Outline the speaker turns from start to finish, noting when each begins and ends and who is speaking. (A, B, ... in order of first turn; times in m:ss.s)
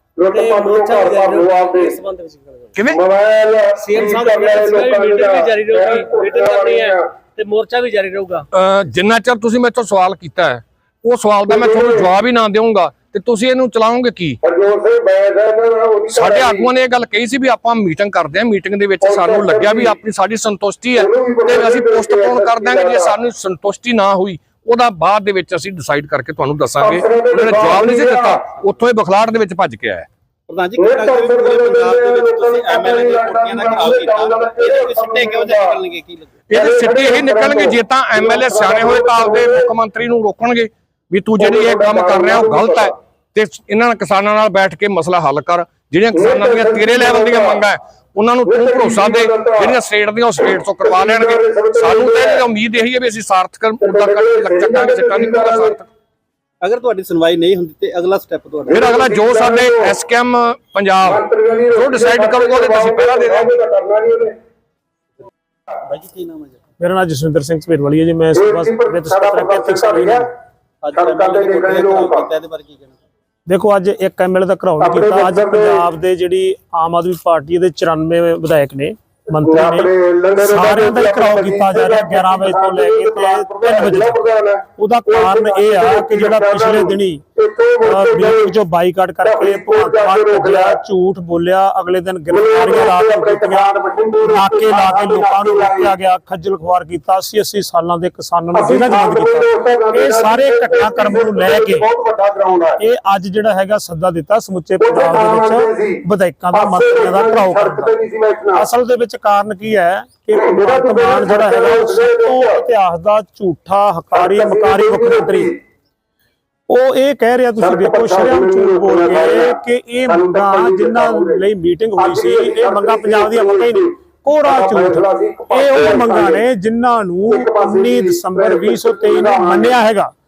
0:00.2-0:02.0 A
0:00.3-0:02.5 B
0:02.9-0:07.0 A
0:03.9-0:08.4 B
0:08.5-0:14.4 C
0:11.5-0:12.1 A
0:14.4-0:16.7 A
0:16.1-0:30.1 C
0:19.0-0:20.0 A
0:21.0-0:23.1 A
0:26.8-0:28.4 A
0:30.5-0:36.4 D
0:30.8-0:35.8 A
0:36.5-0:55.9 C
0:36.5-0:39.7 A
0:41.4-0:42.9 A
0:46.1-0:47.6 A
0:48.4-0:49.8 A
0:50.4-0:52.4 A
0:53.8-0:55.8 A
0:56.6-0:58.8 D
0:58.6-1:00.0 A
0:58.7-1:03.5 C
1:01.0-1:04.3 A
1:05.8-1:06.6 D
1:06.8-1:10.2 E
1:08.3-1:10.3 A
1:10.8-1:13.0 D
1:10.9-1:12.3 A
1:13.5-1:24.2 E
1:14.8-1:15.8 A
1:19.4-1:28.6 A
1:24.8-1:27.2 E
1:27.8-1:41.8 E
1:29.2-1:30.8 A
1:32.3-1:35.9 A
1:38.5-1:42.8 A
1:42.8-1:47.9 E
1:44.8-1:48.6 A
1:48.5-1:55.5 E
1:50.4-1:52.6 A
1:54.1-1:55.6 A
1:56.7-2:10.1 E
1:57.6-2:01.4 A
2:02.0-2:03.9 A
2:04.4-2:06.4 A
2:07.3-2:09.7 A